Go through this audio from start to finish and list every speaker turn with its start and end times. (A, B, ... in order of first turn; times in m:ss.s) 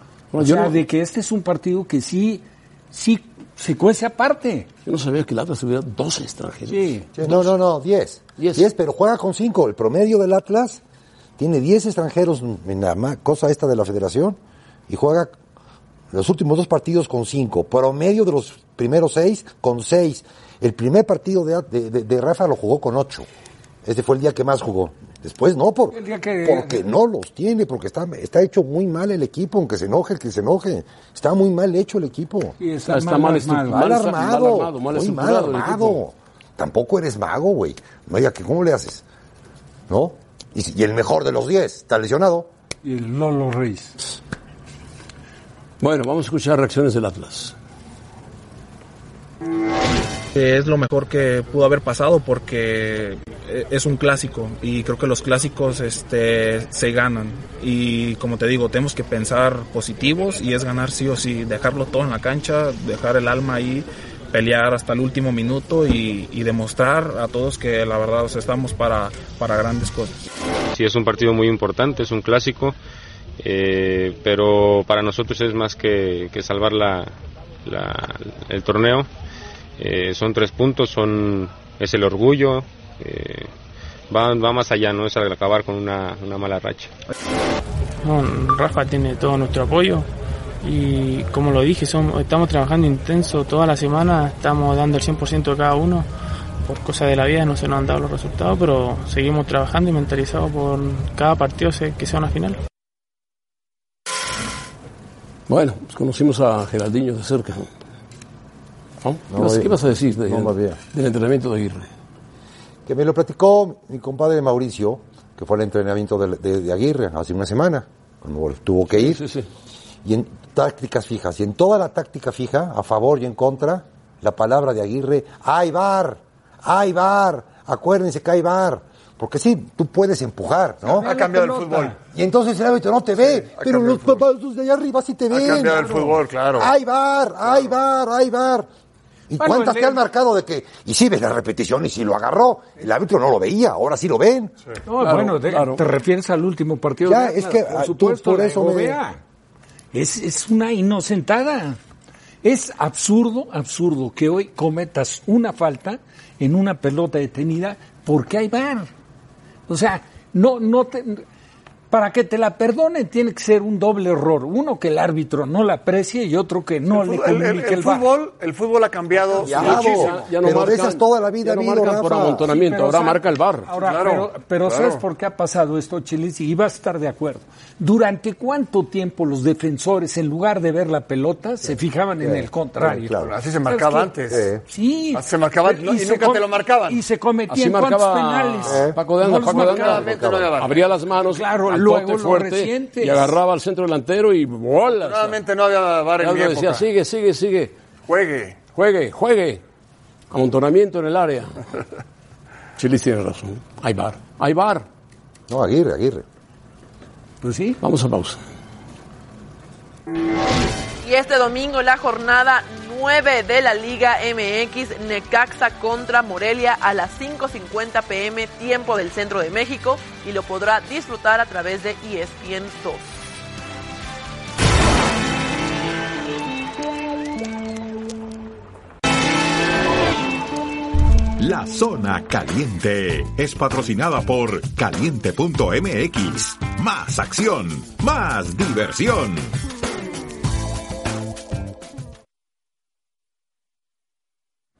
0:00.3-0:00.8 A
0:00.4-0:04.7 B
0:04.8-0:07.5 A
0:06.7-0:07.1 B
0:07.2-0:10.8 C
0:08.4-0:08.7 A
0:11.4-0:15.3 C
0:16.1-0:23.3 C
0:23.8-0:32.6 C
0:25.9-0:26.8 B
0:32.6-0:34.0 B
0:32.9-0:36.0 A
0:33.7-0:39.0 C
0:39.9-0:42.5 C
0:42.8-0:44.0 B
0:45.8-0:47.5 A
0:50.3-1:10.2 D
1:10.7-1:12.8 E
1:13.4-1:19.1 E
1:19.8-1:23.5 E
1:24.1-1:26.9 E
1:28.0-1:30.1 F
1:30.6-1:36.1 F
1:36.6-1:42.6 F
1:45.5-1:47.7 A
1:49.0-1:51.9 A
1:49.3-1:50.8 C
1:52.8-1:59.2 C
1:58.9-1:59.5 A
2:00.0-2:11.1 C
2:10.8-2:12.0 G
2:10.9-2:12.0 B
2:12.1-2:18.7 C
2:13.2-2:14.2 G
2:15.3-2:16.7 G
2:15.7-2:16.1 B
2:19.3-2:24.5 C
2:19.4-2:20.0 B
2:24.9-2:29.2 B
2:25.0-2:25.8 A
2:27.0-2:29.0 C
2:29.9-2:31.8 B
2:32.4-2:38.9 B
2:39.7-2:41.2 B
2:41.9-2:48.1 B
2:46.9-2:50.2 G
2:49.3-2:52.5 C
2:49.4-2:53.7 A
2:52.4-3:04.1 B
2:53.7-2:55.0 G
3:01.6-3:03.3 C
3:03.2-3:04.5 G
3:04.3-3:04.6 C
3:04.6-3:10.1 B
3:05.1-3:07.0 G
3:07.5-3:15.4 A
3:08.6-3:09.0 C
3:09.5-3:10.9 G
3:09.8-3:10.6 C
3:11.3-3:13.4 B
3:15.0-3:16.9 G
3:16.2-3:17.7 A
3:18.0-3:18.7 G
3:18.7-3:19.6 A
3:20.3-3:21.6 A
3:22.8-3:24.8 A
3:25.5-3:26.2 C
3:27.4-3:27.8 B
3:27.8-3:28.4 A
3:31.0-3:43.0 H
3:51.4-3:59.6 I